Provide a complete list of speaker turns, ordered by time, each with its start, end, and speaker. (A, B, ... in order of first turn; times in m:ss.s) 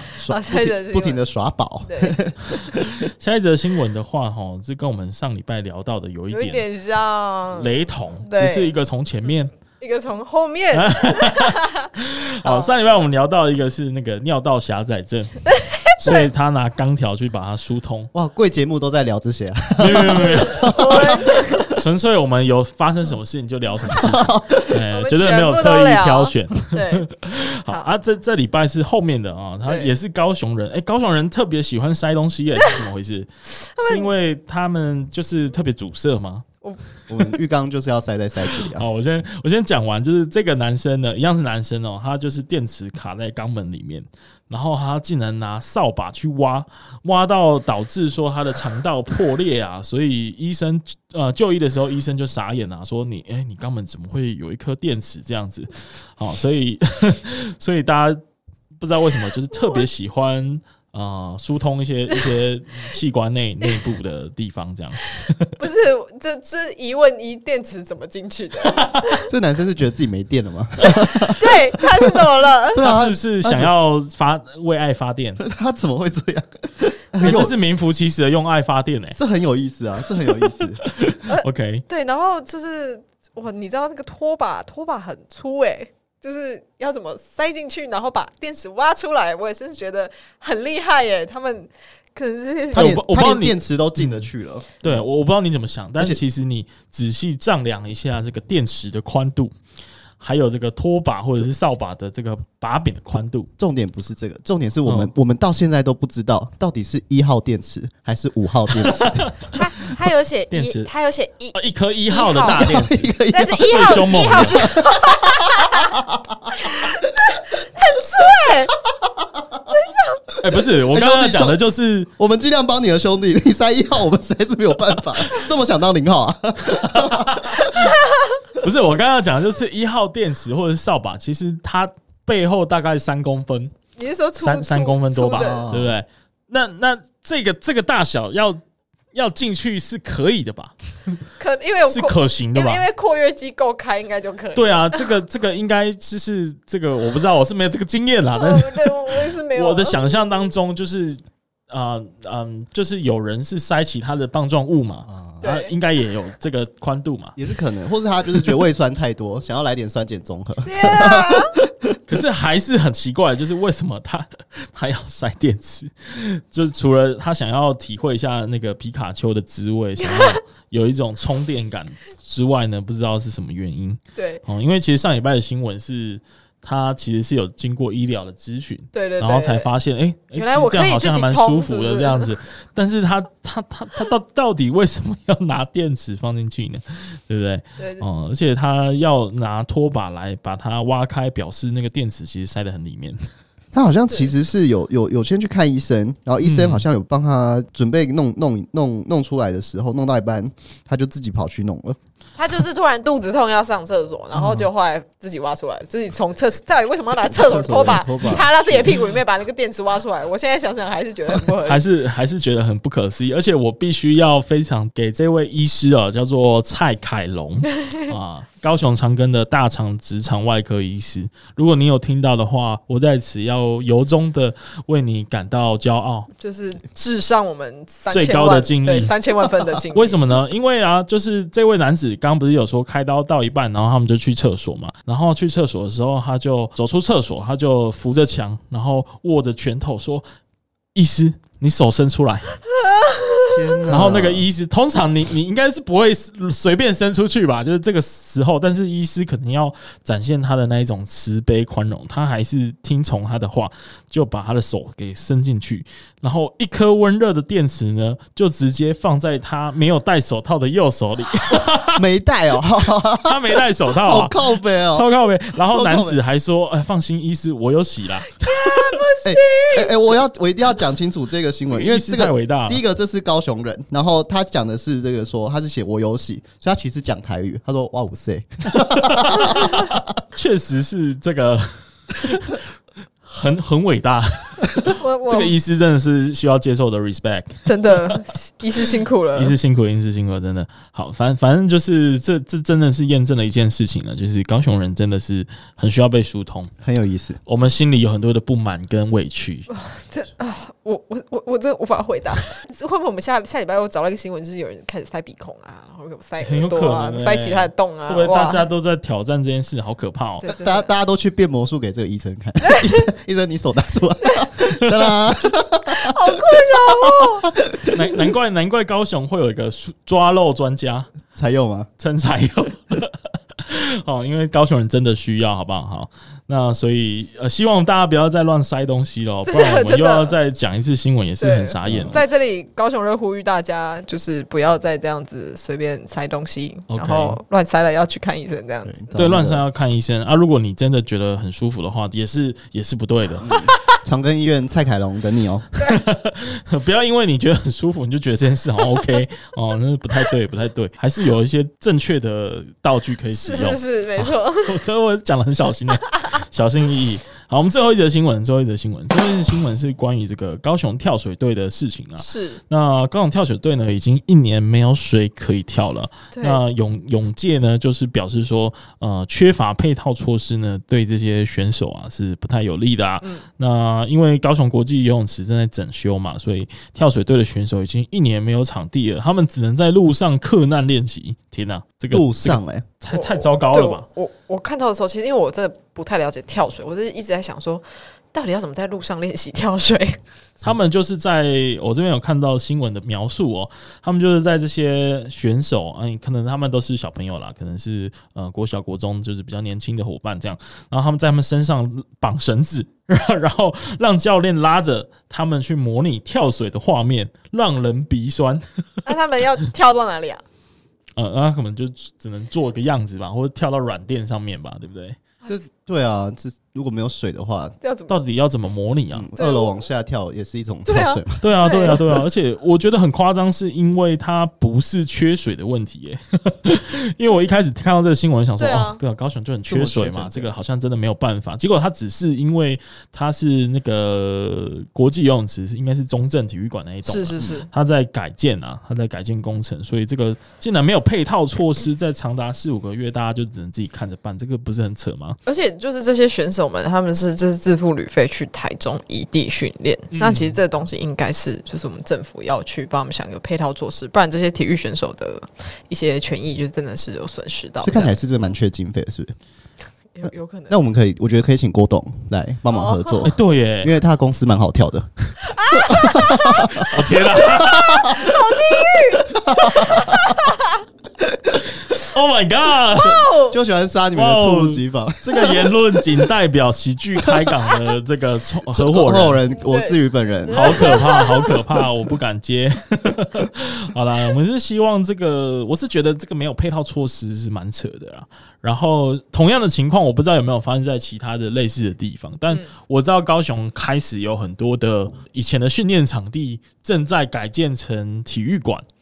0:00.2-0:03.0 A
0:00.3-0:01.2 B
0:01.8-0:02.2 B
0:02.7-0:06.6 C
0:06.3-0:07.7 B
0:07.5-0:09.5 C
0:08.2-0:08.7 B
0:09.8-0:11.9 B
0:10.7-0:15.4 C
0:12.4-0:12.7 B
0:15.5-0:16.3 B
0:16.0-0:18.1 C
0:18.1-0:21.3 A
0:19.8-0:20.9 C
0:20.3-0:21.8 B
0:21.7-0:36.4 C
0:23.9-0:24.6 A
0:24.7-0:27.1 B
0:29.6-0:29.9 B
0:33.7-0:34.1 B
0:37.1-0:38.8 A
0:38.6-0:58.2 C
0:58.8-1:05.5 C
1:05.1-1:09.3 B
1:08.7-1:09.0 C
1:09.2-1:12.2 A
1:10.8-1:12.9 B
1:12.7-1:13.7 A
1:12.8-1:15.4 C
1:15.4-1:17.6 A
1:17.2-1:19.2 C
1:19.2-1:20.8 A
1:20.8-1:21.8 C
1:21.3-1:33.0 B
1:32.7-1:35.0 A
1:32.7-1:34.3 C
1:34.8-1:39.5 C
1:40.2-1:43.5 C
1:43.6-1:49.3 A
1:44.8-1:45.1 C
1:48.9-1:49.9 C
1:49.5-1:52.7 B
1:50.5-1:50.9 C
1:51.5-1:54.6 C
1:52.4-1:56.6 A
1:53.3-1:55.9 B
1:56.5-1:58.8 B
1:59.7-2:00.2 B
2:00.4-2:02.1 C
2:00.9-2:01.6 A
2:02.2-2:07.7 A
2:06.6-2:08.0 C
2:08.6-2:13.8 C
2:14.0-2:15.6 B
2:14.4-2:18.6 C
2:15.3-2:16.0 A
2:19.1-2:21.2 C
2:21.4-2:25.1 B
2:21.8-2:22.8 C
2:24.5-2:37.4 C
2:28.4-2:30.3 B
2:35.1-2:35.4 A
2:35.4-2:35.7 B
2:37.4-2:41.7 A
2:40.6-2:41.6 B
2:42.1-3:13.3 C
2:50.0-2:50.4 B
2:54.2-2:54.4 B
2:58.9-2:59.7 B
3:00.3-3:02.3 B
3:07.8-3:08.0 B
3:13.7-3:22.0 A
3:16.4-3:16.8 C
3:22.4-3:31.8 B
3:27.3-3:29.0 A
3:31.6-3:46.3 C
3:46.4-3:50.3 B
3:48.1-3:49.1 C
3:49.9-4:00.2 C
4:00.9-4:02.5 C
4:03.2-4:03.5 B
4:03.5-4:04.4 A
4:03.9-4:22.0 C
4:21.9-4:25.1 A
4:23.2-4:29.0 C
4:25.7-4:26.2 A
4:28.4-4:30.0 B
4:29.2-4:39.8 A
4:31.7-4:32.8 C
4:38.8-4:42.6 C
4:43.2-4:48.2 C
4:44.9-4:45.5 B
4:47.6-4:49.6 B
4:49.3-4:56.7 C
4:56.8-4:57.4 A
4:57.4-4:59.7 C
4:59.7-5:08.6 B
5:06.4-5:10.5 C
5:10.4-5:10.9 B
5:10.6-5:18.0 A
5:12.6-5:13.1 B
5:14.2-5:14.5 B
5:15.9-5:17.5 B
5:17.9-5:21.1 C
5:21.3-5:21.9 A
5:22.0-5:32.2 C
5:29.5-5:30.4 B
5:31.4-5:39.0 B
5:31.8-5:32.2 A
5:36.9-5:37.4 C
5:38.8-5:39.6 A
5:39.1-5:43.6 C
5:43.4-5:45.7 A
5:45.8-6:24.0 C
5:53.3-5:54.8 B
6:02.2-6:02.6 B
6:06.3-6:06.6 B
6:22.1-6:22.8 A
6:23.1-6:30.2 B
6:30.6-6:49.0 C
6:49.0-6:50.4 B
6:51.2-6:55.2 C
6:55.4-6:57.8 A
6:57.8-6:58.2 B
6:58.1-6:59.3 C
6:59.1-7:01.4 A
6:59.4-6:59.9 B
7:00.8-7:02.2 B
7:01.4-7:25.4 C
7:08.6-7:09.0 B
7:09.7-7:10.6 A
7:17.0-7:17.7 B
7:25.4-7:38.1 B
7:30.1-7:30.6 C
7:37.8-7:39.3 A
7:40.1-7:40.8 B
7:40.7-7:45.1 A
7:42.7-7:43.3 B
7:43.2-7:43.9 C
7:45.4-7:46.9 B
7:45.7-7:50.2 A
7:46.8-7:48.0 C
7:47.4-7:50.8 B
7:49.9-7:50.2 C
7:52.0-7:53.2 C
7:53.0-7:53.6 B
7:53.0-7:56.0 A
7:54.1-7:59.4 C
7:57.2-7:57.7 A
7:58.7-8:01.0 A
7:59.5-8:01.5 B
8:00.5-8:18.8 C